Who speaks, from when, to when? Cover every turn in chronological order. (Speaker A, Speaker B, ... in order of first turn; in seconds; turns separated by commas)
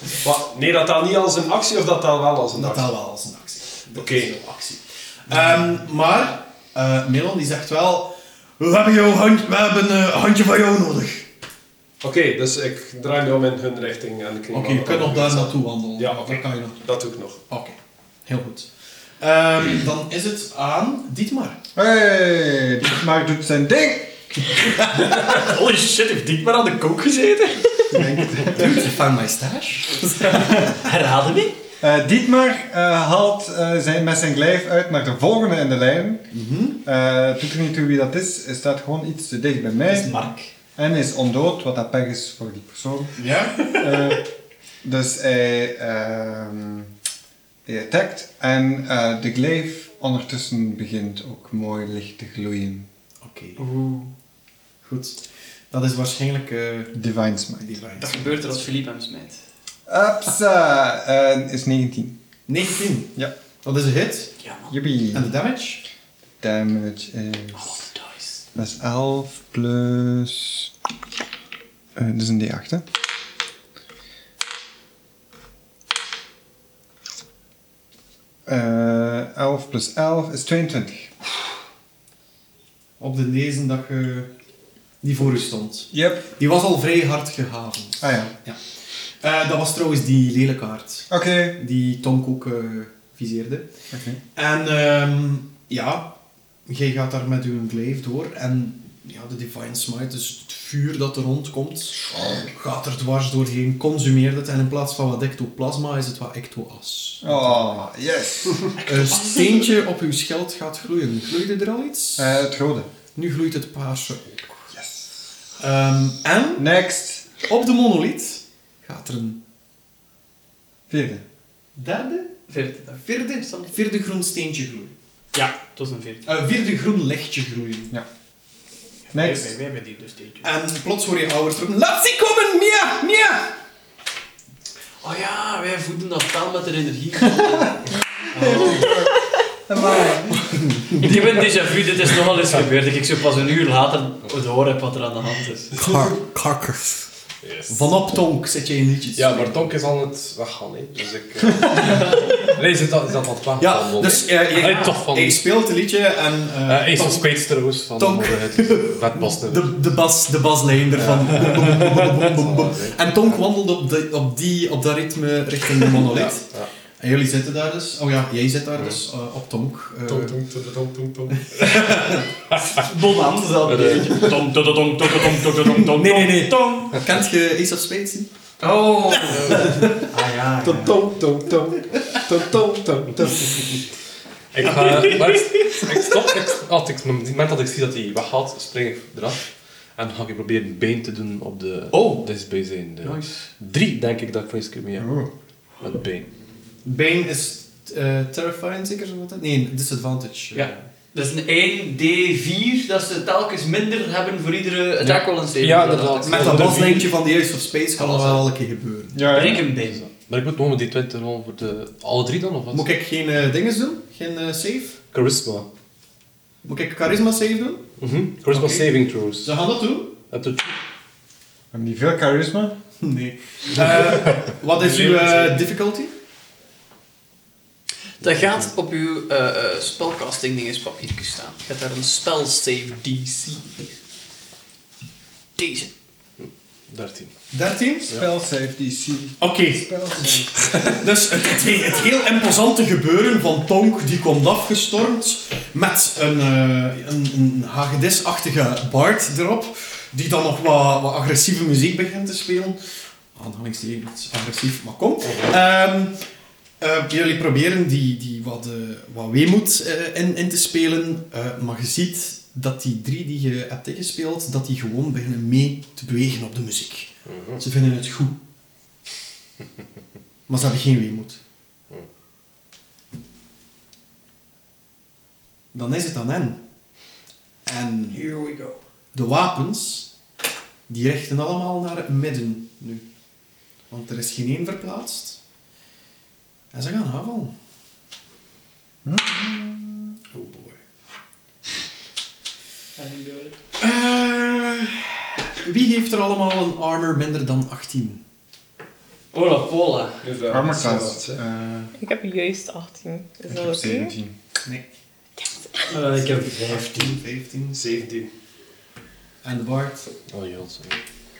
Speaker A: 0.2-2.9, Speaker B: 2.5-11.3, Speaker A: 3.9-4.3, Speaker A: 12.0-17.4, Speaker B: 14.5-16.8, Speaker B: 17.5-21.6, Speaker C: 21.8-24.6, Speaker B: 24.6-25.2, Speaker D: 24.7-28.1, Speaker B: 27.9-30.7, Speaker C: 27.9-28.7, Speaker D: 30.0-31.6, Speaker C: 31.8-36.3, Speaker B: 36.3-36.8, Speaker C: 36.8-40.2, Speaker D: 39.9-40.5, Speaker C: 40.8-44.2, Speaker B: 43.2-43.7, Speaker C: 44.8-46.9, Speaker C: 47.7-52.9, Speaker B: 53.2-53.7, Speaker D: 53.6-54.1, Speaker B: 54.8-57.0, Speaker C: 56.9-57.8, Speaker B: 57.6-58.7, Speaker D: 58.0-59.4, Speaker C: 59.9-62.2, Speaker B: 62.5-64.3, Speaker D: 64.4-64.8, Speaker C: 64.7-65.3, Speaker B: 65.1-65.8, Speaker C: 66.4-67.8, Speaker D: 67.5-68.4, Speaker C: 68.5-70.7, Speaker C: 72.0-72.8, Speaker C: 78.5-81.1, Speaker B: 83.0-84.3, Speaker B: 85.0-88.6, Speaker C: 85.9-86.3, Speaker C: 88.0-88.3, Speaker B: 89.2-93.7, Speaker C: 91.1-91.6, Speaker C: 93.9-94.2, Speaker B: 94.3-107.7, Speaker C: 107.2-108.7, Speaker B: 108.8-112.4, Speaker C: 112.2-112.9, Speaker B: 113.1-114.7, Speaker C: 114.7-115.1, Speaker B: 115.6-116.7, Speaker C: 116.6-117.3, Speaker B: 117.4-119.4, Speaker C: 120.9-121.2, Speaker B: 121.8-122.4, Speaker D: 122.5-123.7, Speaker B: 123.1-124.9, Speaker D: 125.3-126.2, Speaker B: 126.3-128.0, Speaker D: 129.1-130.5, Speaker C: 129.1-129.5, Speaker B: 130.4-133.6, Speaker D: 135.0-139.0, Speaker C: 138.3-140.8, Speaker B: 140.6-141.1, Speaker D: 140.9-145.8, Speaker B: 145.8-147.1, Speaker E: 147.4-147.8, Speaker B: 147.7-149.7, Speaker E: 149.2-155.5, Speaker B: 151.7-152.2, Speaker D: 151.8-152.3, Speaker B: 153.6-157.4, Speaker E: 156.7-159.8, Speaker B: 158.0-170.4, Speaker E: 161.0-163.2, Speaker E: 166.0-166.7, Speaker A: 170.1-171.4, Speaker B: 171.4-172.3, Speaker E: 172.5-172.8, Speaker D: 172.7-177.0, Speaker E: 173.6-174.3, Speaker B: 175.7-178.3, Speaker D: 178.6-181.0, Speaker B: 179.1-180.1, Speaker E: 179.3-179.6, Speaker A: 180.6-183.6, Speaker E: 184.5-195.1, Speaker D: 193.0-193.5, Speaker C: 195.0-195.3, Speaker E: 195.8-196.3, Speaker B: 196.8-200.8, Speaker D: 200.5-206.9, Speaker E: 205.0-207.1, Speaker B: 206.3-209.4, Speaker D: 208.0-208.4, Speaker C: 209.2-209.7, Speaker D: 209.3-210.1, Speaker E: 209.4-212.9, Speaker B: 212.7-215.0, Speaker E: 215.1-215.7, Speaker B: 216.7-217.9, Speaker E: 218.0-219.6, Speaker B: 218.5-220.2, Speaker E: 220.3-220.7, Speaker C: 221.7-222.8, Speaker B: 223.0-226.1, Speaker A: 224.9-225.4, Speaker D: 228.2-233.9, Speaker D: 235.6-235.9, Speaker E: 236.9-237.3, Speaker B: 237.5-238.2, Speaker C: 238.1-240.8, Speaker B: 239.4-252.8, Speaker B: 253.3-256.2, Speaker B: 256.8-268.4, Speaker E: 267.3-267.6, Speaker B: 270.5-271.4, Speaker B: 275.7-276.6, Speaker B: 277.7-278.3, Speaker D: 278.1-278.8, Speaker B: 279.1-280.1, Speaker B: 280.9-283.0, Speaker B: 283.9-285.4, Speaker B: 286.7-287.5, Speaker C: 289.1-290.1, Speaker B: 290.4-290.7, Speaker D: 293.0-293.6, Speaker B: 293.8-298.2, Speaker D: 299.3-300.2, Speaker A: 300.2-301.4, Speaker C: 300.5-301.9, Speaker F: 302.0-304.1, Speaker C: 303.5-304.3, Speaker F: 305.4-305.9, Speaker D: 305.9-307.2, Speaker B: 305.9-307.9, Speaker A: 307.8-308.3, Speaker B: 309.4-310.1, Speaker E: 310.3-311.0